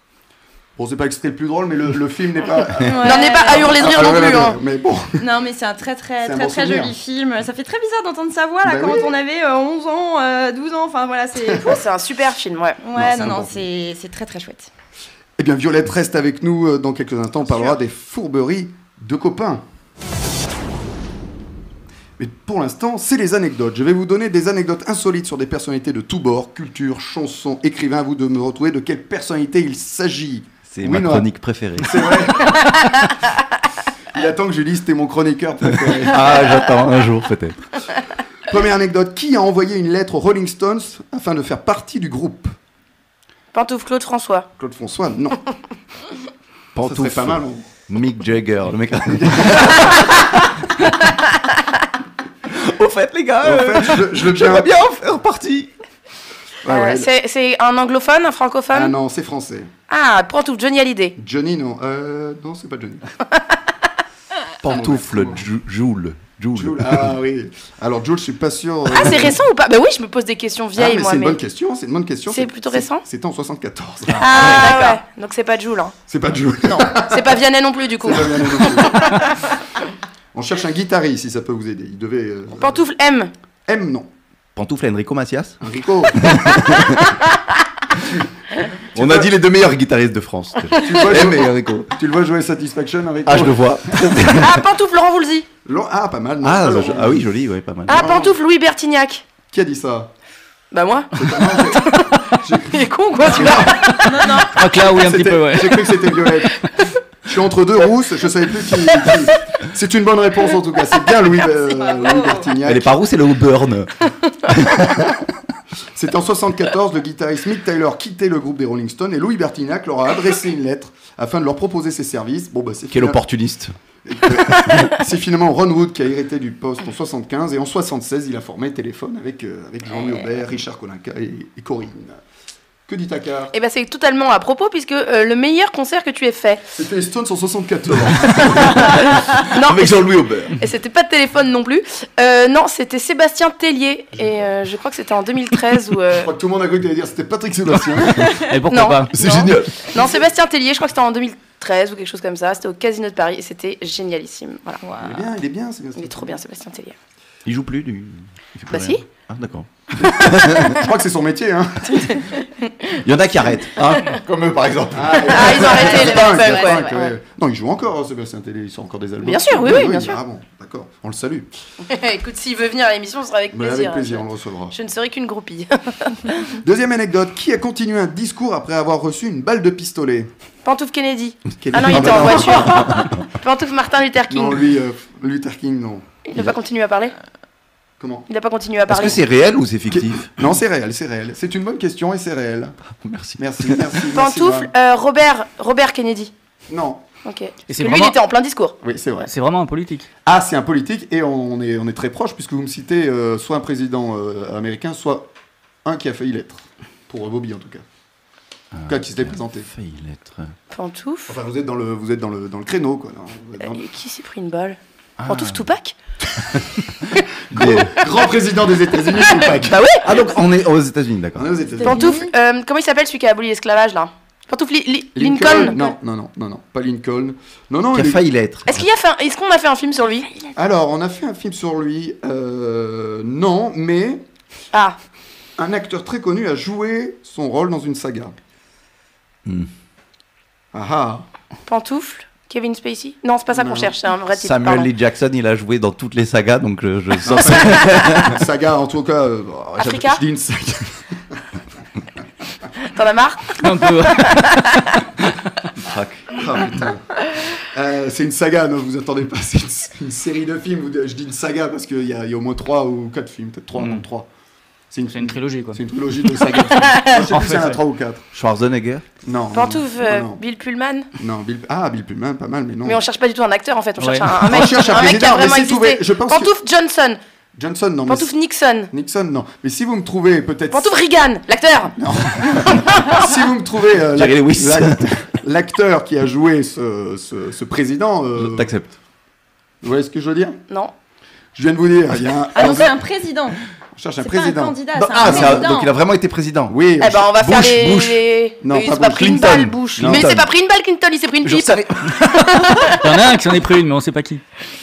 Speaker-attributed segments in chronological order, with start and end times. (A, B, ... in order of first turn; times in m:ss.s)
0:00.8-0:05.2 A
0:02.9-0:04.3 B
0:03.0-0:04.6 C
0:05.2-0:11.8 B
0:06.2-0:07.0 A
0:08.6-0:09.1 A
0:11.6-0:12.8 C
0:12.8-0:14.7 B
0:13.0-0:13.6 A
0:15.4-0:19.6 A
0:22.2-0:32.6 A
0:30.7-0:32.2 D
0:34.1-0:36.6 A
0:36.0-0:37.7 D
0:38.5-0:42.6 A
0:43.5-0:44.5 C
0:44.6-0:45.4 A
0:46.8-0:50.4 D
0:46.8-0:47.6 A
0:49.1-0:50.1 A
0:52.5-0:55.7 D
0:53.4-0:54.7 A
0:56.6-0:57.1 A
0:56.7-0:58.9 C
0:58.7-0:59.7 A
0:59.9-1:01.2 C
1:01.2-1:03.0 A
1:04.6-1:05.5 A
1:04.6-1:07.2 D
1:06.6-1:09.4 A
1:08.9-1:11.4 C
1:10.8-1:14.8 A
1:12.3-1:13.0 C
1:14.1-1:14.9 D
1:14.2-1:16.0 C
1:16.1-1:17.4 A
1:16.7-1:19.2 C
1:18.0-1:19.2 A
1:20.3-1:22.8 A
1:22.6-1:23.3 C
1:23.7-1:24.1 A
1:24.6-1:25.6 D
1:25.6-1:26.8 A
1:26.1-1:27.2 D
1:29.0-1:29.3 A
1:29.0-1:31.9 D
1:30.8-1:34.1 A
1:33.3-1:34.6 D
1:34.3-1:35.5 C
1:35.6-1:37.3 A
1:36.4-1:38.0 D
1:37.9-1:38.4 A
1:37.9-1:39.2 C
1:39.5-1:40.1 A
1:40.7-1:44.4 C
1:41.1-1:46.6 A
1:44.0-1:44.5 B
1:44.5-1:46.0 E
1:47.2-1:52.9 A
1:51.7-1:52.4 B
1:52.6-1:55.2 D
1:55.9-2:03.2 A
2:02.9-2:03.8 D
2:04.0-2:12.2 A
2:04.5-2:04.9 D
2:12.9-2:13.5 A
2:13.5-2:16.6 C
2:16.8-2:18.8 A
2:18.4-2:20.6 D
2:18.6-2:26.3 C
2:24.2-2:24.4 A
2:26.1-2:28.3 A
2:28.4-2:29.2 E
2:28.7-2:34.8 C
2:29.2-2:29.9 D
2:34.8-2:35.2 B
2:35.0-2:36.4 A
2:36.0-2:37.0 C
2:37.5-2:40.8 D
2:38.7-2:39.0 C
2:40.0-2:42.2 A
2:41.9-2:42.2 C
2:43.0-2:46.0 D
2:43.3-2:43.6 A
2:44.9-2:51.5 A
2:45.2-2:47.1 C
2:49.2-2:50.2 C
2:51.9-2:56.5 C
2:53.5-2:54.8 A
2:56.6-3:00.3 A
3:00.6-3:04.6 C
3:01.6-3:03.0 A
3:01.8-3:03.2 D
3:04.3-3:06.5 A
3:06.3-3:07.1 C
3:08.0-3:08.3 A
3:08.3-3:09.2 C
3:08.9-3:10.3 D
3:09.9-3:12.8 A
3:13.0-3:14.0 D
3:13.4-3:14.7 A
3:14.1-3:16.3 C
3:16.7-3:17.0 A
3:17.2-3:18.8 C
3:17.7-3:18.2 E
3:18.8-3:19.3 A
3:19.3-3:20.1 E
3:20.2-3:25.3 A
3:25.8-3:27.8 A
3:28.7-3:30.5 D
3:28.9-3:29.7 A
3:30.7-3:31.3 C
3:31.3-3:33.8 A
3:33.6-3:36.0 C
3:35.2-3:35.6 D
3:37.5-3:39.8 A
3:37.5-3:38.0 D
3:39.7-3:40.1 C
3:39.7-3:41.5 D
3:41.4-3:42.2 A
3:41.8-3:45.8 C
3:45.2-3:48.3 A
3:47.9-3:48.8 D
3:48.7-3:50.3 C
3:50.6-3:54.2 A
3:55.6-3:58.4 A
4:00.7-4:01.3 A
4:01.7-4:04.9 C
4:03.5-4:04.0 A
4:04.3-4:08.4 D
4:07.2-4:11.4 A
4:09.8-4:10.2 C
4:12.9-4:14.9 C
4:13.6-4:14.8 E
4:15.8-4:16.4 D
4:16.3-4:24.3 A
4:24.9-4:28.2 A
4:25.1-4:25.8 E
4:27.3-4:27.8 E
4:28.3-4:29.0 D
4:29.2-4:30.4 A
4:29.5-4:31.1 C
4:31.2-4:33.0 A
4:32.8-4:37.2 C
4:34.0-4:34.6 E
4:34.5-4:36.5 A
4:37.6-4:38.3 A
4:38.1-4:38.9 C
4:38.9-4:40.9 A
4:40.7-4:42.0 C
4:42.0-4:48.7 A
4:42.5-4:43.1 C
4:44.1-4:45.1 D
4:48.4-4:48.9 D
4:49.8-4:50.6 A
4:51.6-4:52.9 A
4:52.6-4:53.6 B
4:54.0-4:55.7 A
4:54.2-4:55.9 B
4:55.0-4:56.8 D
4:56.7-4:58.0 A
4:57.0-5:03.0 C
4:57.4-4:58.2 D
4:58.6-4:59.4 A
4:59.1-5:00.5 D
5:00.0-5:00.3 A
5:01.4-5:02.2 D
5:03.0-5:04.4 E